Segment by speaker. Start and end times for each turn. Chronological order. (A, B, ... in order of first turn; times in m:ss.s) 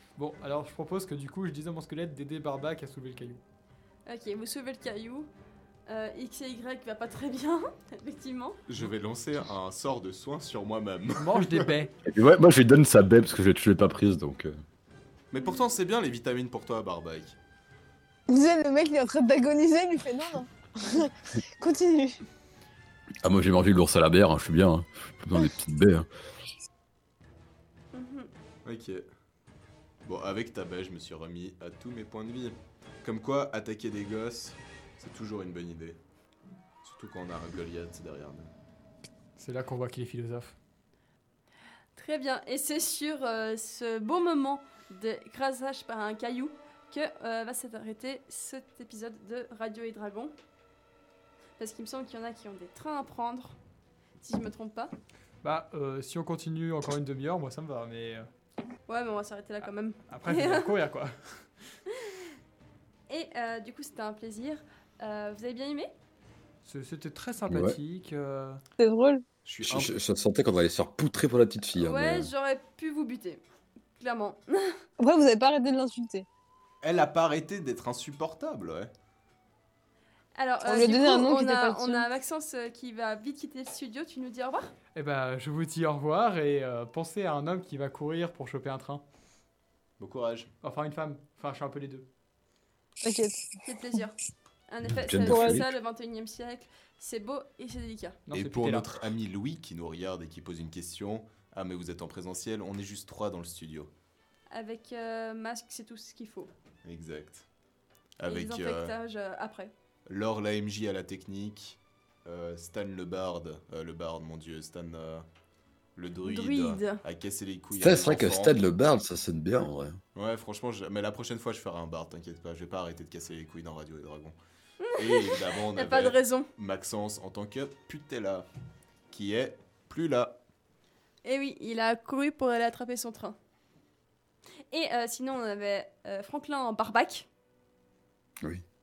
0:00.2-0:03.4 A
0:04.1-0:05.3 B
0:05.9-0:08.6 B
0:08.7-0:11.7 C
0:11.2-0:11.9 A
0:12.0-0:14.6 D
0:15.3-0:17.4 C
0:18.3-0:22.2 E
0:23.2-0:26.1 D
0:27.9-0:28.3 B
0:28.6-0:29.1 C
0:30.0-0:36.0 C
0:36.8-0:38.5 C
0:39.4-0:40.6 A
0:42.0-0:50.3 B
0:51.6-0:53.6 B
0:54.2-0:54.9 B
0:55.4-0:58.3 A
0:58.9-1:00.7 B
1:00.1-1:01.5 A
1:02.0-1:02.2 B
1:03.1-1:05.9 B
1:06.6-1:08.6 A
1:07.5-1:07.8 D
1:08.8-1:09.2 E
1:09.4-1:10.0 C
1:09.6-1:12.3 D
1:11.8-1:13.4 B
1:14.0-1:14.8 B
1:15.0-1:16.3 E
1:16.8-1:18.9 C
1:20.4-1:24.7 B
1:20.6-1:22.0 E
1:24.9-1:29.0 A
1:30.0-1:30.5 C
1:30.6-1:32.1 A
1:33.0-1:33.4 E
1:33.6-1:34.2 B
1:34.7-1:38.2 B
1:34.9-1:35.7 D
1:35.2-1:35.6 E
1:38.3-1:38.9 A
1:38.3-1:43.9 C
1:44.5-1:46.5 B
1:46.8-1:47.5 C
1:48.2-1:48.9 C
1:48.2-1:49.7 B
1:50.1-1:55.2 C
1:56.0-1:58.6 C
1:56.2-1:57.0 B
1:57.8-2:00.0 D
2:00.1-2:04.4 C
2:04.8-2:06.5 B
2:04.9-2:08.5 C
2:09.1-2:10.4 C
2:11.2-2:13.4 B
2:14.7-2:17.3 B